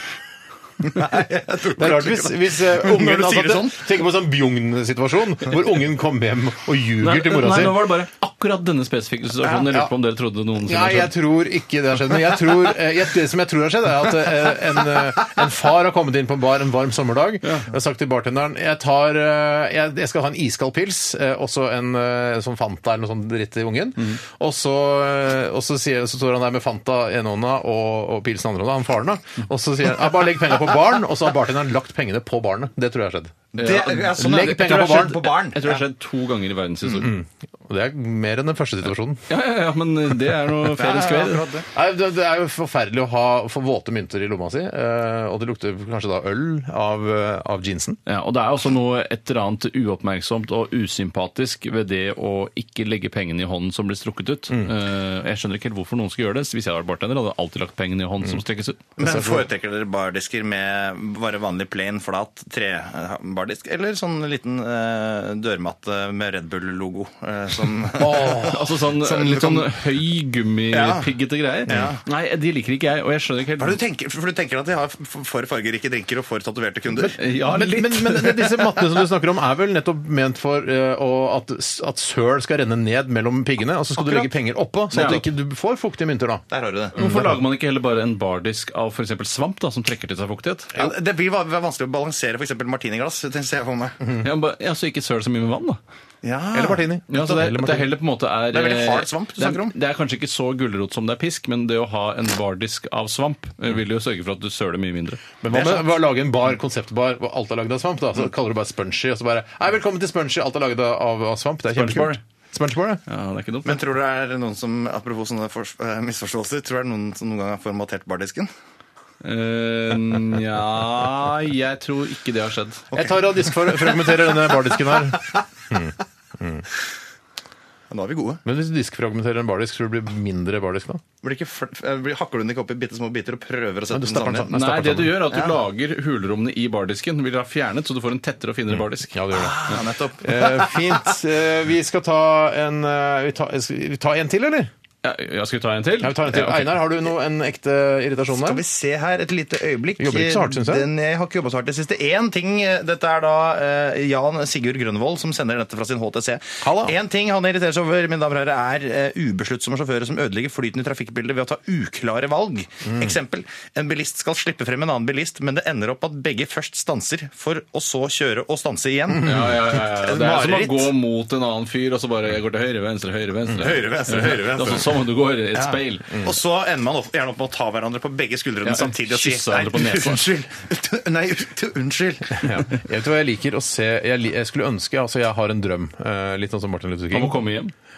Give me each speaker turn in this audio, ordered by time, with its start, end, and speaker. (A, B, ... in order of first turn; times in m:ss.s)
0:00.8-0:03.9 A
0:01.8-0:07.9 B
0:07.0-0:11.1 C
0:10.6-0:35.2 B
0:33.6-0:35.8 A
0:33.6-0:37.1 C
0:37.0-0:39.2 B
0:39.3-0:41.4 C
0:40.7-0:41.7 A
0:41.7-0:48.0 B
0:48.1-0:58.8 C
0:59.0-1:09.8 A
0:59.0-0:59.4 B
1:08.0-1:08.7 B
1:08.2-1:13.8 C
1:10.7-1:11.1 A
1:11.7-1:12.0 A
1:13.6-1:17.2 A
1:17.2-1:18.6 C
1:17.3-1:26.4 B
1:24.0-1:24.3 A
1:24.9-1:25.2 A
1:24.9-1:25.2 C
1:26.5-1:27.0 A
1:27.0-1:27.4 B
1:27.0-1:30.8 C
1:30.7-1:34.0 A
1:34.2-1:35.8 C
1:36.2-1:37.2 A
1:36.5-1:37.9 B
1:37.1-1:45.2 C
1:38.5-1:39.8 A
1:45.4-1:53.0 B
1:45.5-1:45.9 A
1:51.7-1:52.2 C
1:53.1-1:53.8 C
1:53.6-1:58.5 A
1:59.2-2:02.9 C
2:02.9-2:05.2 A
2:02.9-2:06.7 B
2:07.9-2:08.4 A
2:08.4-2:11.0 B
2:11.2-2:15.4 A
2:13.9-2:15.2 B
2:14.5-2:19.2 C
2:19.1-2:24.7 B
2:19.3-2:21.2 A
2:25.0-2:26.8 C
2:26.0-2:28.6 B
2:28.3-2:50.9 A
2:30.0-2:30.9 B
2:36.6-2:37.0 B
2:49.2-2:56.2 C
2:53.6-2:55.0 A
2:55.5-3:02.6 A
2:58.6-3:00.2 C
3:02.4-3:07.4 B
3:07.1-3:07.7 C